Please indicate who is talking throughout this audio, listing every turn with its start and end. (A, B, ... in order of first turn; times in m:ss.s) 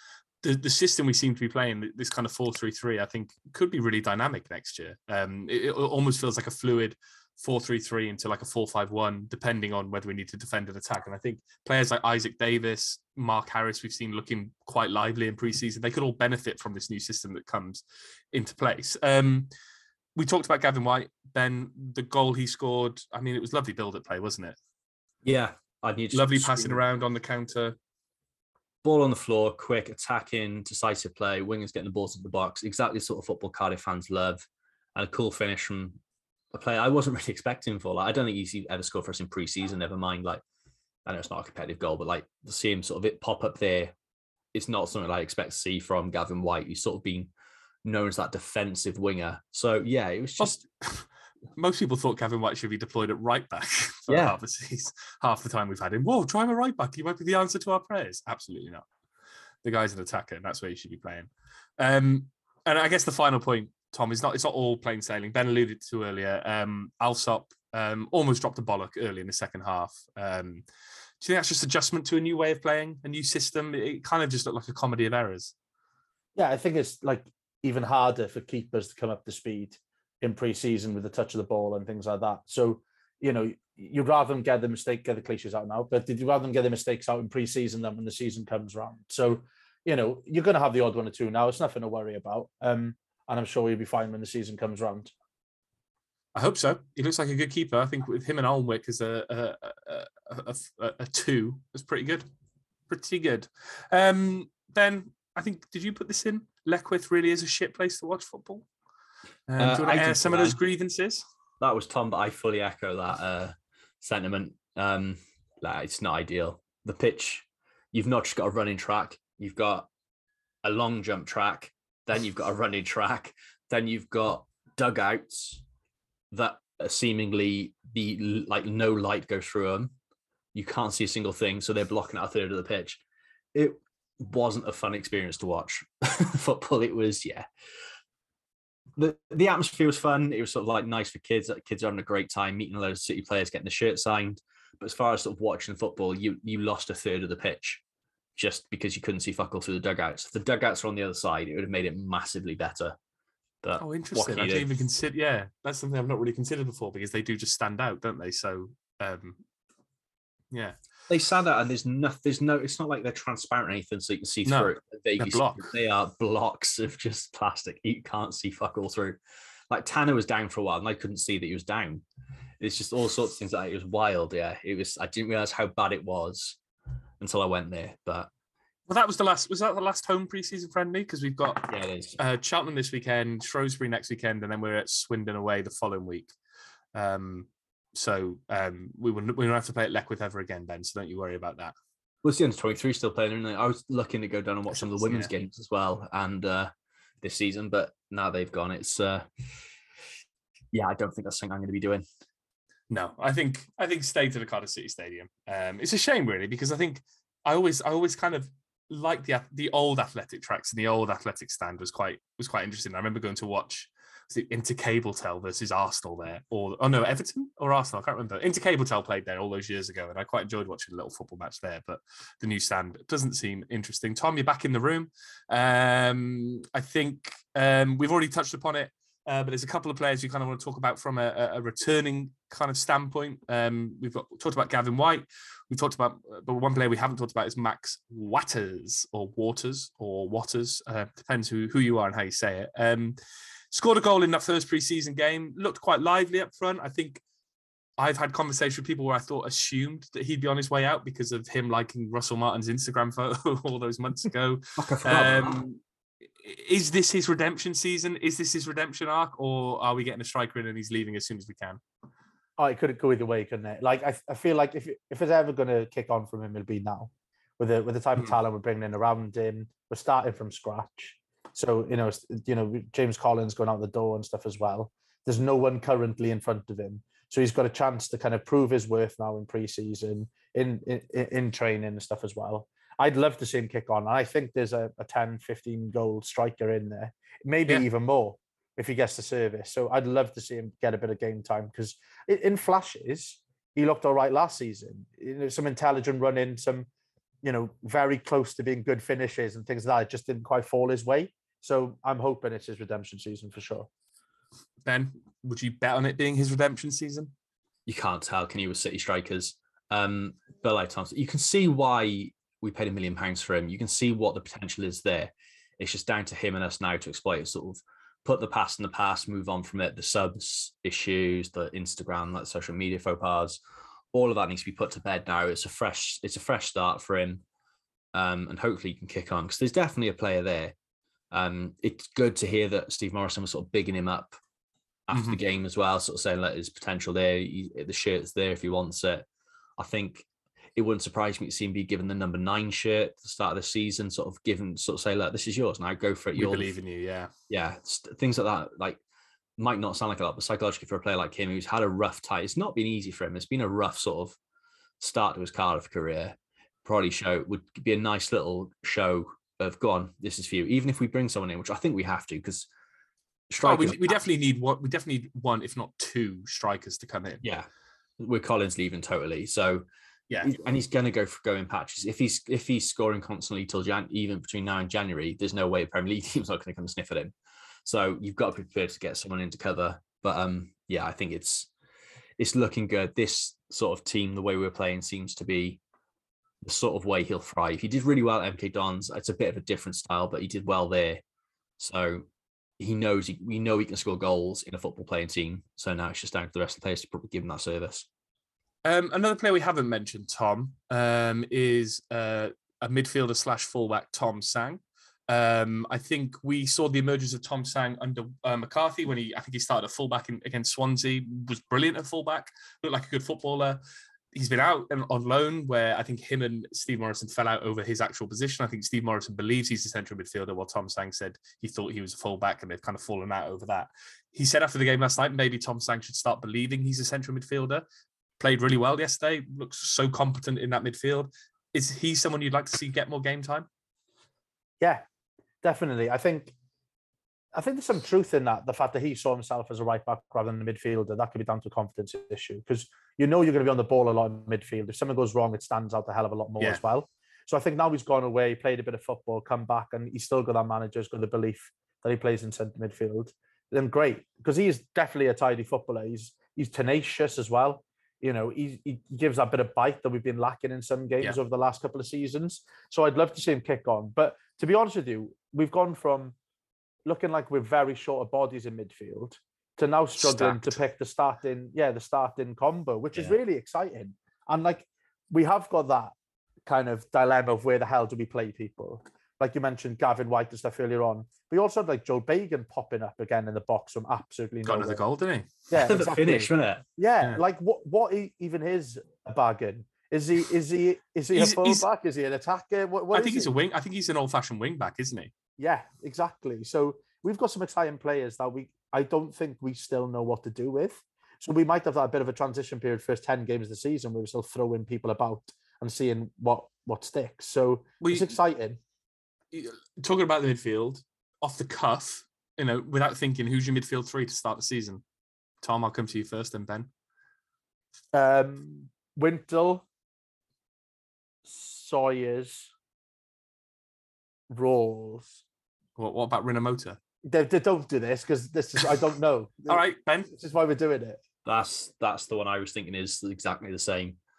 0:00.4-0:19.5 A
0:20.2-0:24.6 A
0:25.2-0:26.8 B
0:26.1-0:27.8 A
0:28.8-0:36.0 B
0:36.5-0:40.4 B
0:41.0-0:43.9 B
0:44.5-0:47.3 B
0:47.8-0:50.6 B
0:50.4-0:58.8 A
0:54.1-0:54.4 B
0:59.6-1:10.6 A
1:11.2-1:15.5 A
1:16.4-1:35.1 C
1:36.3-1:42.3 A
1:42.9-1:48.6 A
1:49.5-1:51.2 A
1:49.6-1:50.6 B
1:51.6-1:59.9 B
2:00.6-2:05.6 B
2:06.3-2:09.9 B
2:10.5-2:13.0 B
2:13.5-2:17.4 B
2:19.0-2:27.8 B
2:28.4-2:33.0 B
2:33.6-2:34.8 B
2:33.8-2:39.4 A
2:40.5-2:40.8 A
2:41.1-2:52.0 B
2:44.4-2:45.7 A
2:52.6-2:56.6 B
2:57.2-2:58.3 B
2:58.9-3:01.7 A
3:01.6-3:02.2 B
3:02.2-3:06.3 A
3:06.9-3:11.7 A
3:12.2-3:19.3 B
3:14.7-3:15.3 A
3:20.7-3:22.0 B
3:22.9-4:03.2 A
4:03.7-4:07.2 A
4:08.0-4:15.8 A
4:14.8-4:15.6 B
4:16.4-4:21.8 A
4:22.6-4:56.9 C
4:57.4-5:03.9 C
5:04.8-5:07.3 A
5:07.8-5:23.6 B
5:24.1-5:27.4 B
5:28.1-5:30.7 B
5:31.3-5:34.4 B
5:35.1-5:39.2 B
5:35.1-5:35.4 A
5:39.8-5:46.7 B
5:46.3-5:47.3 A
5:47.5-5:49.0 B
5:49.6-5:54.4 B
5:55.0-6:02.7 B
6:03.5-6:04.2 B
6:03.6-6:07.4 A
6:07.4-6:07.7 B
6:08.2-6:09.8 B
6:10.3-6:10.6 A
6:10.4-6:17.3 B
6:17.8-6:21.7 B
6:22.4-6:25.8 B
6:26.6-6:31.2 B
6:31.8-6:32.3 B
6:32.8-6:38.0 B
6:38.8-6:53.8 A
6:54.3-7:07.8 A
7:08.4-7:13.7 A
7:15.6-7:16.5 C
7:17.5-7:46.3 C
7:47.0-7:56.1 C
7:50.2-7:50.8 A
7:56.6-8:05.0 C
8:04.6-8:05.5 A
8:05.7-8:13.5 C
8:05.7-8:06.8 B
8:11.3-8:11.8 A
8:13.1-8:15.3 A
8:15.6-8:28.8 C
8:28.0-8:28.3 A
8:29.5-8:35.0 A
8:35.6-8:36.9 A
8:38.1-8:39.8 C
8:41.4-8:42.7 C
8:44.5-8:45.4 C
8:46.0-8:47.0 A
8:47.2-8:51.2 C
8:49.7-8:50.3 A
8:51.4-8:54.2 B